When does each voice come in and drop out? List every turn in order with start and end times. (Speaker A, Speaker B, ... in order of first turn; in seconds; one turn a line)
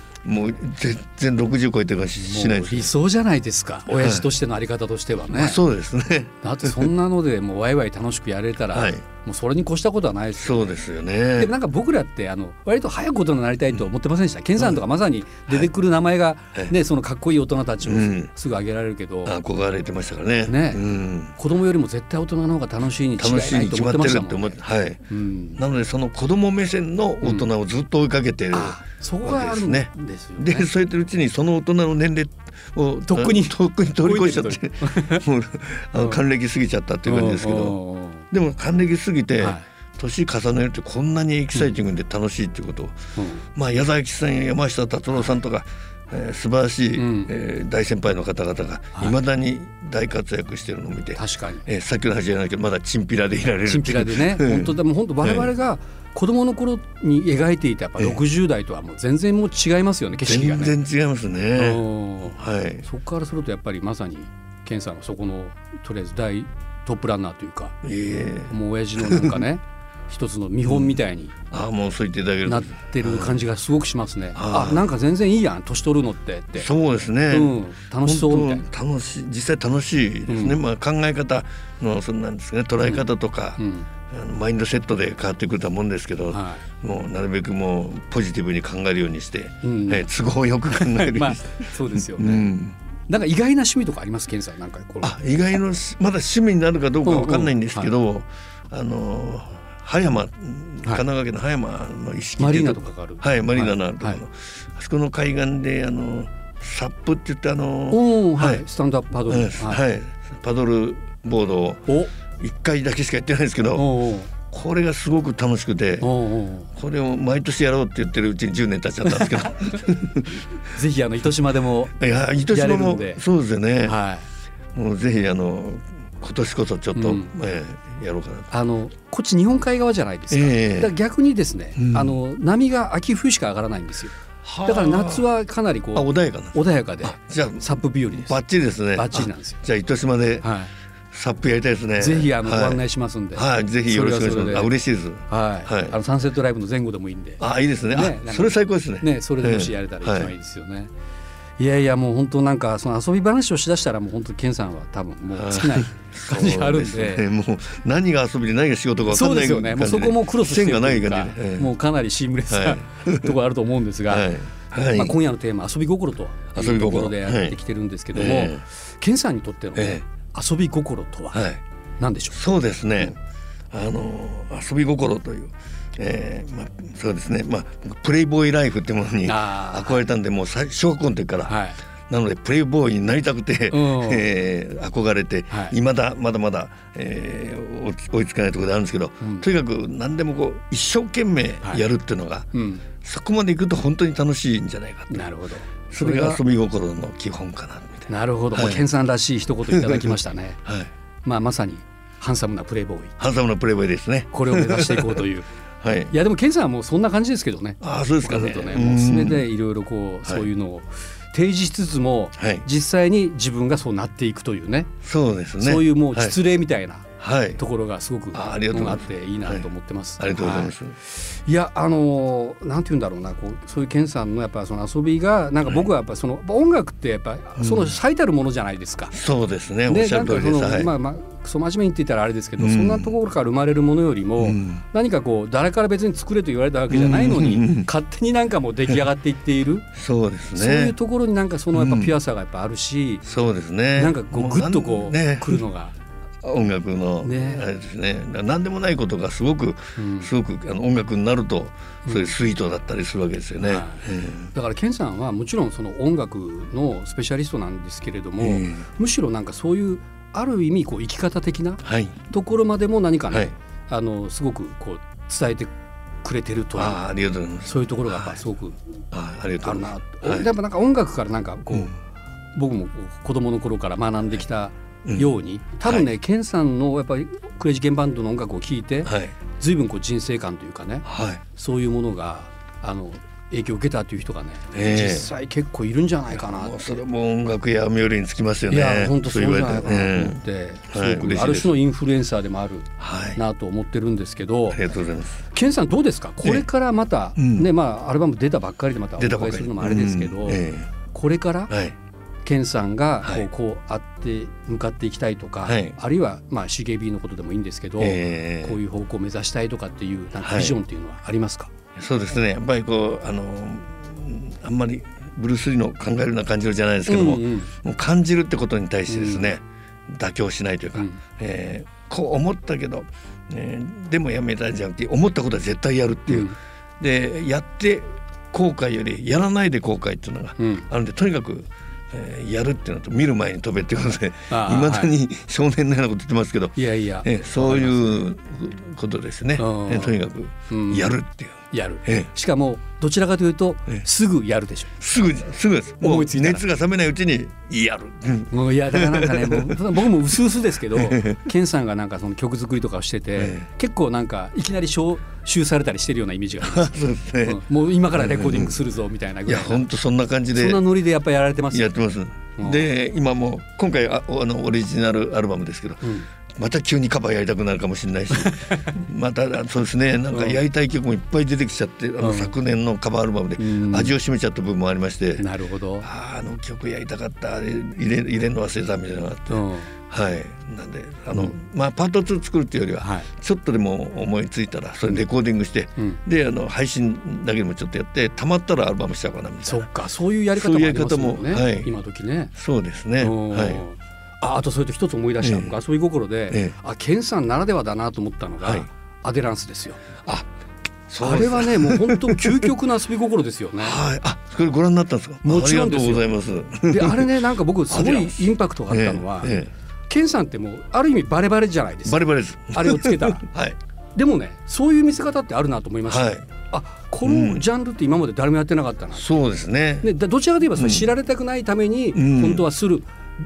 Speaker A: 0.2-2.9
Speaker B: 2.2-5.6
Speaker A: 3.9-4.3
Speaker A: 5.3-6.9
Speaker B: 6.4-10.8
Speaker A: 8.7-9.0
Speaker A: 10.4-11.5
Speaker B: 11.3-19.4
Speaker A: 14.6-14.8
Speaker A: 17.8-18.3
Speaker A: 19.2-21.3
Speaker B: 20.4-20.8
Speaker B: 21.3-25.6
Speaker A: 23.2-25.0
Speaker A: 25.6-37.8
Speaker B: 27.2-27.5
Speaker B: 28.5-30.7
Speaker B: 33.1-35.2
Speaker B: 37.0-38.2
Speaker A: 38.3-43.0
Speaker B: 39.4-39.6
Speaker B: 43.1-43.4
Speaker A: 43.5-55.5
Speaker B: 47.0-47.3
Speaker B: 51.1-51.6
Speaker B: 53.6-60.7
Speaker A: 60.2-62.9
Speaker B: 61.5-67.8
Speaker A: 67.8-69.4
Speaker B: 68.5-71.3
Speaker A: 70.6-71.0
Speaker A: 71.5-73.4
Speaker B: 72.5-76.7
Speaker A: 74.3-74.9
Speaker A: 76.5-92.8
Speaker B: 77.3-78.7
Speaker B: 80.3-80.6
Speaker B: 82.8-83.1
Speaker B: 83.6-83.9
Speaker B: 86.3-86.6
Speaker B: 89.6-90.0
Speaker B: 90.7-92.5
Speaker B: 93.1-95.2
Speaker A: 95.0-108.6
Speaker B: 97.0-97.9
Speaker B: 102.4-104.2
Speaker B: 107.9-109.8
Speaker A: 109.3-111.8
Speaker B: 111.9-112.1
Speaker A: 112.4-113.9
Speaker B: 113.8-114.3
Speaker A: 114.5-116.1
Speaker B: 116.0-116.7
Speaker A: 116.7-120.4
Speaker B: 119.1-119.8
Speaker B: 120.7-123.2
Speaker A: 121.9-124.0
Speaker B: 123.8-124.2
Speaker A: 124.7-128.5
Speaker B: 127.0-127.3
Speaker B: 128.5-138.4
Speaker A: 130.3-130.9
Speaker A: 131.7-132.2
Speaker A: 134.4-135.3
Speaker A: 135.9-140.5
Speaker B: 138.9-139.6
Speaker B: 140.4-140.7
Speaker A: 141.1-142.8
Speaker B: 142.0-144.7
Speaker A: 143.3-145.9
Speaker B: 145.3-150.9
Speaker A: 147.4-150.3
Speaker B: 151.6-157.2
Speaker A: 155.3-161.7
Speaker B: 159.1-164.3
Speaker A: 162.5-163.3
Speaker A: 164.1-165.2
Speaker B: 164.8-171.4
Speaker A: 166.5-167.6
Speaker A: 168.1-168.6
Speaker A: 169.7-170.0
Speaker A: 171.3-171.6
Speaker B: 172.0-172.4
Speaker A: 172.3-173.2
Speaker A: 173.7-181.6
Speaker B: 179.2-180.0
Speaker B: 181.5-181.8
Speaker A: 182.1-192.5
Speaker B: 183.7-184.3
Speaker B: 185.5-185.8
Speaker B: 189.2-189.4
Speaker B: 192.5-192.8
Speaker A: 193.0-195.3
Speaker B: 195.1-196.4
Speaker A: 195.9-198.9
Speaker B: 198.1-200.6
Speaker A: 199.7-200.9
Speaker B: 201.2-203.1
Speaker A: 203.2-205.2
Speaker B: 204.3-205.5
Speaker A: 205.8-206.1
Speaker B: 206.1-214.9
Speaker A: 207.8-209.5
Speaker A: 212.4-212.6
Speaker A: 215.0-216.4
Speaker B: 215.6-217.1
Speaker A: 217.2-217.6
Speaker B: 217.6-229.1
Speaker A: 218.3-219.7
Speaker A: 220.2-220.9
Speaker A: 227.6-227.9
Speaker A: 229.1-230.9
Speaker B: 229.9-239.8
Speaker A: 232.6-233.1
Speaker A: 234.4-234.8
Speaker A: 236.9-237.9
Speaker A: 239.9-240.9
Speaker B: 240.6-243.2
Speaker A: 241.7-242.2
Speaker A: 243.2-245.6
Speaker B: 244.0-245.9
Speaker A: 246.4-254.5
Speaker B: 247.2-247.6
Speaker B: 250.0-250.3
Speaker B: 252.0-252.3
Speaker B: 253.6-265.7
Speaker A: 258.4-258.9
Speaker A: 261.8-262.1
Speaker B: 266.2-267.0
Speaker A: 266.8-268.4
Speaker B: 267.6-268.8
Speaker A: 269.1-270.5
Speaker B: 269.6-271.9
Speaker B: 272.5-287.0
Speaker A: 275.0-275.3
Speaker A: 279.0-279.3
Speaker A: 281.0-281.4
Speaker A: 284.7-285.2
Speaker A: 286.3-291.8
Speaker B: 288.7-294.8
Speaker A: 293.0-293.4
Speaker A: 294.7-295.4
Speaker B: 295.5-301.7
Speaker A: 297.4-297.7
Speaker A: 299.2-300.9
Speaker A: 301.7-301.9
Speaker B: 302.4-311.7
Speaker A: 305.6-306.0
Speaker A: 308.0-308.8
Speaker A: 310.4-310.8
Speaker A: 311.9-342.3
Speaker B: 317.1-317.7
Speaker B: 319.1-319.4
Speaker B: 330.6-330.9
Speaker B: 334.5-335.1
Speaker B: 336.8-338.2
Speaker B: 339.6-340.2
Speaker B: 340.7-341.1
Speaker B: 341.7-345.0
Speaker A: 345.0-350.0
Speaker B: 346.0-346.7
Speaker B: 348.5-356.9
Speaker A: 350.9-351.4
Speaker A: 353.4-353.6
Speaker A: 356.6-358.7
Speaker B: 357.4-359.9
Speaker A: 359.5-360.8
Speaker B: 360.5-361.9
Speaker A: 361.7-366.0
Speaker B: 362.6-362.9
Speaker B: 366.0-366.3
Speaker A: 366.5-375.4
Speaker B: 368.3-368.9
Speaker B: 370.3-370.6
Speaker B: 372.2-372.5
Speaker B: 373.6-374.2
Speaker B: 375.4-376.1
Speaker A: 376.0-389.9
Speaker B: 379.5-379.9
Speaker B: 383.0-383.3
Speaker B: 389.6-392.5
Speaker A: 390.5-391.9
Speaker A: 392.5-393.8
Speaker B: 393.2-400.0
Speaker A: 395.4-395.7
Speaker A: 396.5-396.7
Speaker A: 398.6-398.9
Speaker A: 401.1-402.7
Speaker B: 401.2-404.0
Speaker A: 403.8-407.3
Speaker B: 405.4-406.3
Speaker B: 406.9-409.6
Speaker A: 407.9-409.7
Speaker B: 410.1-413.4
Speaker A: 412.0-413.8
Speaker B: 414.1-419.2
Speaker A: 416.1-416.4
Speaker A: 417.2-417.6
Speaker A: 419.1-420.1
Speaker B: 420.0-423.1
Speaker A: 420.7-421.1
Speaker A: 422.1-422.7